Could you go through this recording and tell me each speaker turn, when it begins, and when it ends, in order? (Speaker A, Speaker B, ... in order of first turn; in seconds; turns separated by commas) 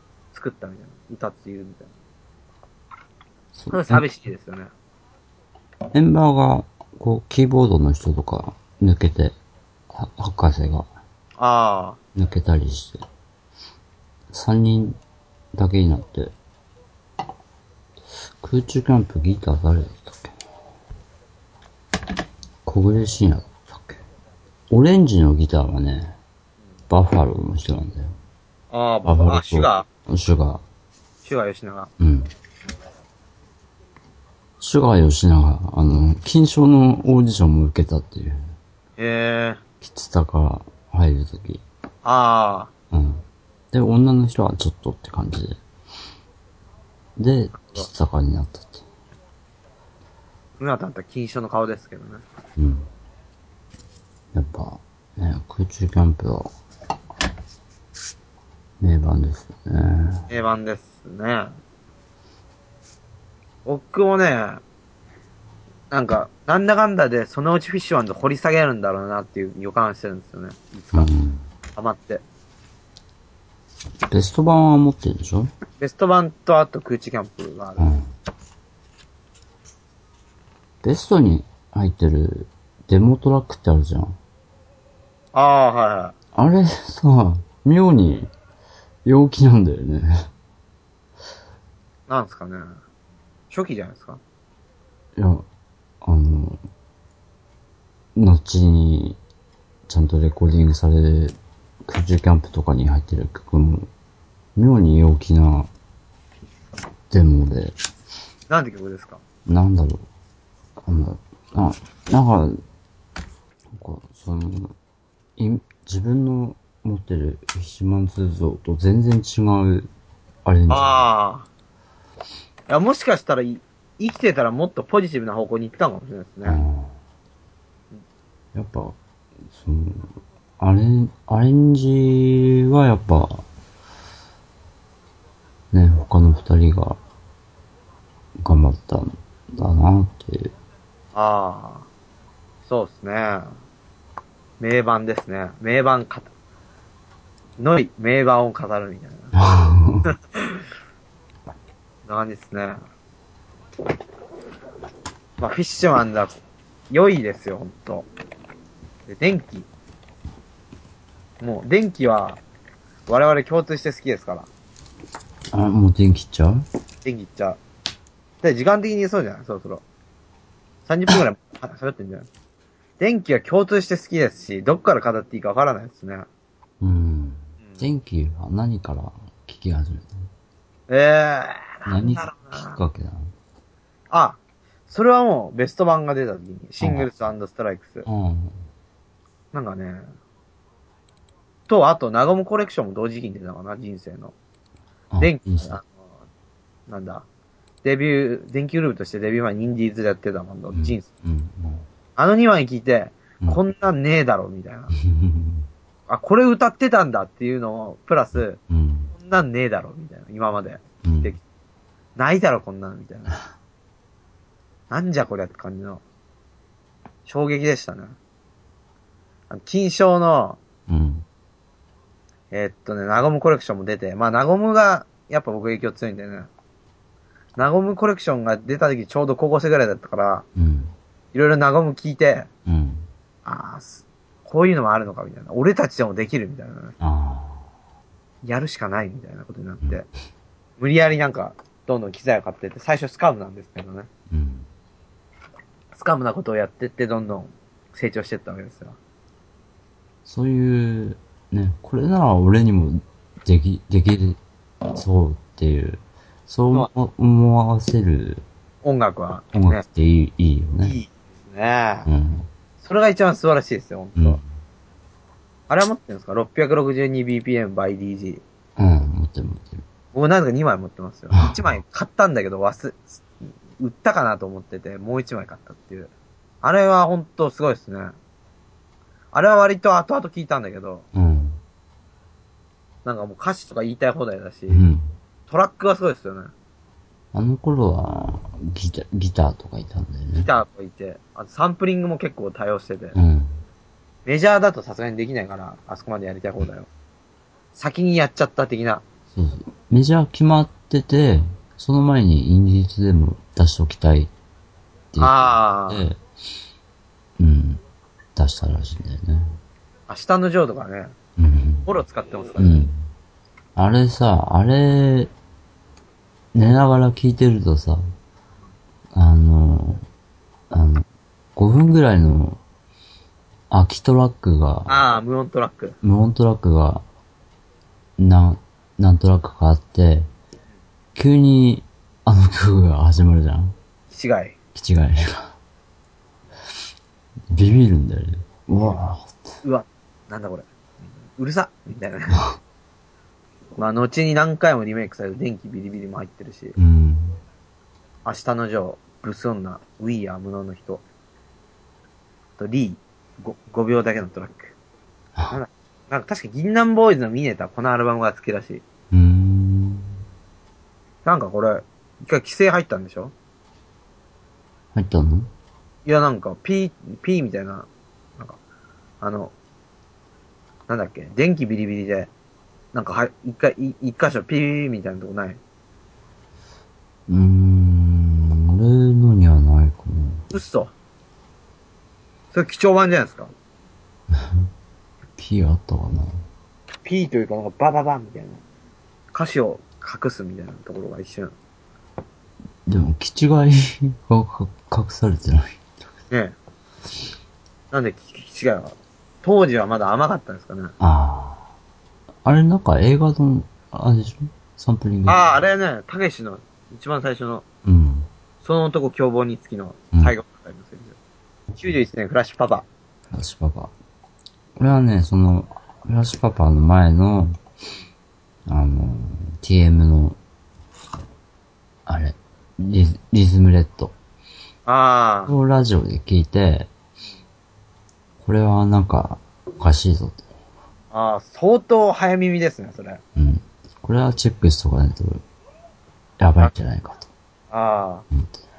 Speaker A: 0.3-1.9, Speaker B: 3.5-4.0, Speaker A: 3.7-4.7, Speaker B: 5.9-9.3, Speaker B: 9.9-10.9, Speaker A: 11.4-12.0, Speaker B: 12.1-13.0, Speaker B: 14.3-15.0, Speaker B: 15.5-16.3, Speaker B: 18.4-20.4, Speaker B: 22.6-24.0, Speaker B: 24.7-26.1, Speaker B: 26.9-28.1, Speaker A: 28.7-29.9, Speaker B: 29.0-30.6, Speaker A: 31.2-31.9, Speaker B: 32.0-32.3, Speaker B: 34.6-38.5, Speaker A: 39.0-39.6, Speaker B: 39.8-41.6, Speaker A: 42.0-42.7, Speaker B: 42.9-45.6, Speaker B: 47.2-48.8, Speaker A: 50.6-52.2, Speaker B: 52.6-52.9, Speaker B: 54.3-56.5, Speaker B: 58.8-60.3, Speaker A: 60.3-61.5, Speaker A: 63.6-64.6, Speaker A: 65.9-71.1, Speaker B: 70.9-71.4, Speaker A: 71.8-72.2, Speaker B: 74.1-75.5, Speaker A: 75.8-77.9, Speaker B: 77.8-78.1, Speaker B: 80.8-84.2, Speaker A: 85.3-86.2, Speaker B: 86.3-88.3, Speaker B: 89.0-90.3, Speaker A: 92.1-92.8, Speaker A: 93.5-94.2, Speaker B: 95.2-95.5, Speaker B: 96.0-96.6, Speaker B: 98.1-99.2, Speaker B: 99.9-103.9, Speaker B: 104.5-105.7, Speaker B: 107.1-107.7, Speaker A: 108.5-109.2, Speaker B: 109.5-110.1, Speaker B: 110.8-112.6, Speaker B: 113.7-114.7, Speaker B: 115.4-119.9, Speaker B: 120.4-121.1, Speaker A: 120.7-121.5, Speaker A: 122.7-126.6, Speaker B: 126.4-127.0, Speaker B: 128.5-129.0, Speaker B: 129.5-133.4, Speaker B: 135.7-137.0, Speaker B: 138.4-140.5, Speaker A: 141.1-141.9, Speaker A: 142.7-143.5, Speaker A: 144.6-146.3, Speaker A: 147.6-149.3, Speaker B: 149.3-150.1, Speaker A: 150.0-150.6, Speaker A: 152.1-152.8, Speaker A: 155.4-156.3, Speaker A: 156.9-158.1, Speaker A: 159.1-159.7, Speaker A: 161.4-162.4, Speaker A: 163.1-164.5, Speaker B: 165.5-166.6, Speaker A: 167.0-167.6, Speaker A: 168.4-169.8, Speaker A: 170.8-172.3, Speaker A: 173.0-176.3, Speaker B: 176.8-180.3, Speaker A: 180.9-182.8, Speaker B: 181.8-183.3, Speaker A: 184.1-188.1, Speaker B: 186.8-187.1, Speaker B: 188.0-188.6, Speaker A: 189.5-190.1, Speaker A: 191.7-194.3, Speaker B: 195.1-195.8, Speaker A: 195.2-195.9, Speaker A: 196.9-197.2, Speaker A: 197.8-201.1, Speaker B: 200.7-201.8, Speaker A: 202.2-204.9, Speaker B: 205.0-205.7, Speaker A: 206.1-208.6, Speaker B: 208.3-209.1, Speaker A: 209.1-211.4, Speaker B: 211.0-211.3, Speaker A: 212.2-213.4, Speaker A: 214.9-216.0, Speaker A: 217.2-218.2, Speaker A: 219.5-220.6, Speaker B: 220.9-221.2, Speaker A: 222.5-226.5, Speaker A: 227.6-230.4, Speaker B: 230.6-230.9, Speaker A: 231.3-232.5, Speaker B: 232.7-233.1, Speaker A: 233.4-237.0, Speaker B: 237.0-237.7, Speaker A: 238.4-240.0, Speaker A: 240.8-244.1, Speaker B: 244.3-244.7, Speaker A: 245.9-249.0, Speaker B: 250.2-254.4, Speaker B: 254.9-258.4, Speaker A: 258.8-259.8, Speaker B: 259.5-261.0, Speaker A: 260.8-262.1, Speaker B: 262.1-262.5, Speaker A: 262.8-264.4, Speaker B: 264.2-264.4, Speaker A: 265.7-268.4, Speaker B: 268.8-269.8, Speaker A: 270.1-276.1, Speaker B: 271.3-271.6, Speaker A: 276.6-278.1, Speaker A: 279.3-281.0, Speaker B: 281.1-281.6, Speaker A: 283.0-284.9, Speaker B: 284.7-285.1, Speaker A: 285.5-286.5, Speaker B: 287.3-290.5, Speaker A: 290.4-293.1, Speaker B: 293.1-293.6, Speaker A: 294.2-296.9, Speaker A: 297.8-299.0, Speaker B: 299.3-304.3, Speaker B: 305.1-306.2, Speaker A: 305.2-306.1, Speaker B: 307.4-307.8, Speaker B: 308.4-309.6, Speaker A: 310.1-311.1, Speaker B: 311.4-311.9, Speaker A: 311.9-312.8, Speaker B: 312.6-313.0, Speaker B: 313.8-315.3, Speaker B: 316.5-318.0, Speaker B: 319.1-320.1, Speaker B: 320.7-322.6, Speaker B: 323.7-325.0, Speaker A: 324.9-326.0, Speaker B: 326.0-327.0, Speaker B: 328.2-330.3, Speaker B: 331.1-333.8, Speaker A: 334.1-334.6, Speaker B: 334.7-335.6, Speaker B: 337.5-339.4, Speaker A: 339.6-340.6, Speaker A: 341.2-342.4, Speaker A: 343.8-346.7, Speaker B: 346.8-347.4, Speaker A: 348.2-351.0, Speaker A: 352.6-354.7, Speaker A: 355.5-358.8, Speaker B: 359.1-360.2, Speaker A: 361.2-363.3, Speaker B: 364.9-365.5, Speaker A: 366.1-368.6, Speaker A: 369.2-369.5, Speaker A: 370.9-372.3, Speaker A: 372.9-375.6, Speaker B: 377.3-380.5, Speaker A: 380.5-380.9, Speaker A: 382.5-383.5, Speaker B: 384.3-384.7, Speaker B: 385.4-386.4, Speaker A: 387.0-388.6, Speaker A: 389.3-391.5, Speaker B: 392.9-395.8, Speaker A: 396.3-396.6, Speaker A: 397.9-400.9, Speaker B: 401.0-401.6, Speaker B: 402.4-405.5, Speaker A: 405.3-407.6, Speaker B: 407.8-408.3, Speaker A: 408.6-411.1, Speaker A: 411.8-412.8, Speaker B: 413.3-413.9, Speaker B: 414.8-417.6, Speaker B: 418.6-420.4, Speaker B: 422.1-424.1, Speaker A: 424.9-425.5, Speaker B: 425.5-426.9, Speaker B: 428.4-430.5, Speaker A: 431.1-433.2, Speaker B: 433.4-435.4, Speaker B: 436.4-437.3, Speaker A: 437.7-438.2, Speaker B: 438.3-438.6